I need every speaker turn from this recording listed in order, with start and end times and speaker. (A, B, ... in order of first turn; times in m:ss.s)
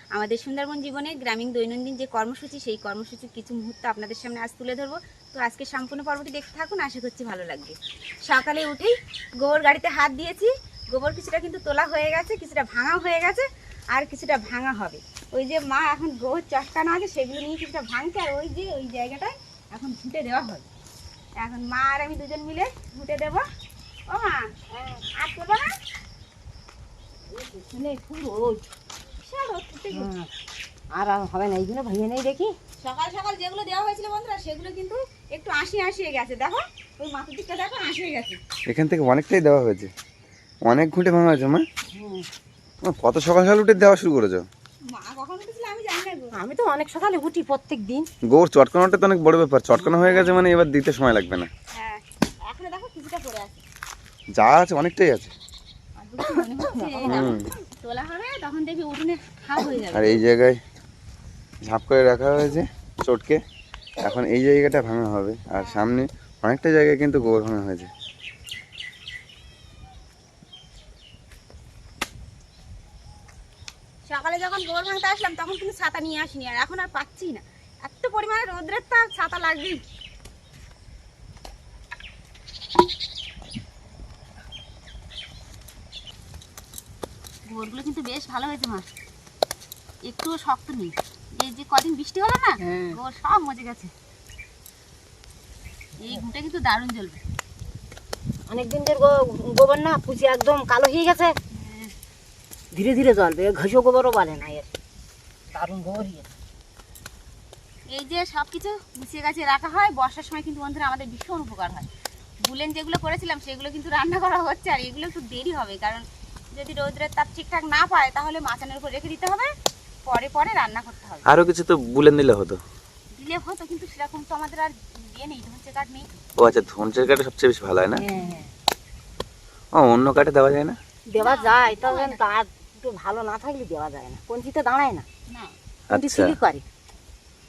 0:00.1-0:20.6 A
0:21.4-0:23.4 A
0:24.1-0:25.7 A
0:27.3-0:28.7 B
0:29.2-0:30.1 A
0:29.9-0:30.3 B
0:30.9-0:32.5 B
0:32.8-0:38.4 A
0:38.7-0:39.9 C
0:40.6-0:41.6 C
0:41.9-0:42.2 B
0:42.8-0:44.4 C
0:44.9-0:46.3 A
0:46.4-0:48.1 B
0:48.3-0:51.5 C
0:49.8-0:50.3 A
0:51.7-0:53.6 A
0:54.4-0:55.3 C
0:56.0-1:00.2 A
0:56.7-0:57.3 B
0:57.0-0:57.5 C
0:59.9-1:00.6 C
1:01.6-1:03.4 C
1:04.0-1:07.9 C
1:05.5-1:05.9 A
1:14.0-1:19.8 A
1:27.5-1:28.9 A
1:30.0-1:33.9 A
1:32.6-1:33.0 B
1:36.0-1:37.2 A
1:38.5-1:41.3 B
1:41.5-1:41.9 A
1:42.7-1:44.7 B
1:45.5-1:46.3 B
1:47.9-1:51.9 A
1:52.4-1:59.5 A
2:00.0-2:01.2 A
2:01.2-2:02.6 C
2:03.1-2:06.1 A
2:06.4-2:08.0 C
2:08.0-2:08.5 B
2:09.7-2:10.8 C
2:11.1-2:15.0 B
2:11.2-2:12.2 A
2:15.3-2:15.5 A
2:15.9-2:16.4 C
2:15.9-2:16.6 B